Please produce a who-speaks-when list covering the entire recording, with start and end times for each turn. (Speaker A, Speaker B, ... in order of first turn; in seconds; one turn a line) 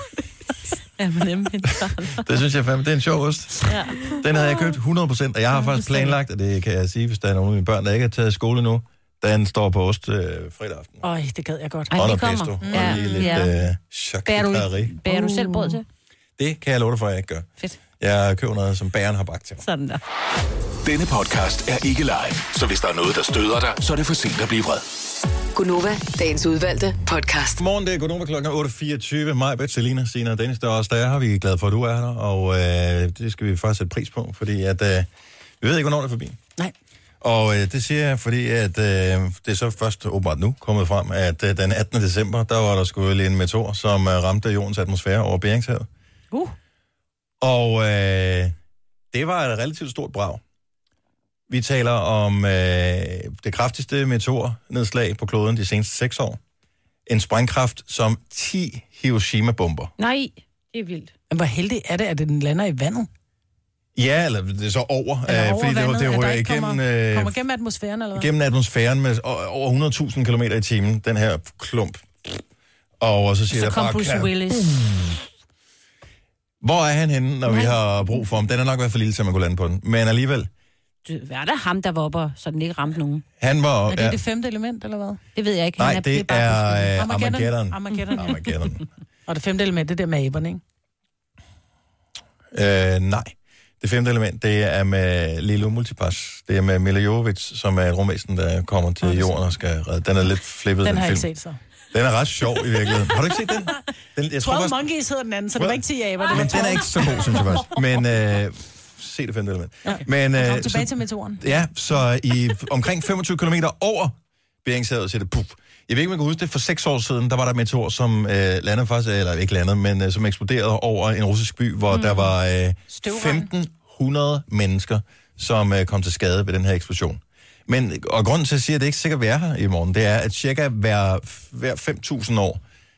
Speaker A: 1.0-2.2
Speaker B: 2.1-11.1
Speaker A: 3.7-4.6
Speaker C: 11.0-11.9
Speaker A: 11.9-13.5
Speaker B: 11.9-14.9
Speaker C: 12.6-13.4
Speaker A: 14.3-15.8
Speaker C: 15.1-15.8
Speaker B: 16.4-17.5
Speaker B: 18.0-19.6
Speaker A: 19.6-20.0
Speaker D: 20.8-24.9
Speaker E: 25.6-27.6
Speaker B: 27.6-35.1
Speaker B: 35.6-36.4
Speaker B: 37.2-45.9
Speaker B: 47.4-48.5
Speaker B: 49.1-50.4
Speaker B: 51.5-56.4
Speaker B: 57.1-59.9
Speaker A: 60.0-61.1
Speaker C: 61.3-63.1
Speaker B: 64.0-67.4
Speaker C: 65.3-68.3
Speaker B: 68.2-72.4
Speaker B: 73.0-75.2
Speaker A: 73.5-74.9
Speaker B: 76.6-80.5
Speaker A: 81.1-83.2
Speaker B: 83.4-84.2
Speaker C: 83.9-85.2
Speaker A: 85.4-86.8
Speaker B: 85.8-88.8
Speaker C: 86.9-88.3
Speaker C: 89.3-90.6
Speaker B: 92.5-101.3
Speaker C: 99.0-99.3
Speaker C: 100.8-101.6
Speaker B: 101.9-104.8
Speaker C: 104.4-107.7
Speaker B: 105.6-132.6
Speaker C: 109.8-111.5
Speaker C: 122.9-123.5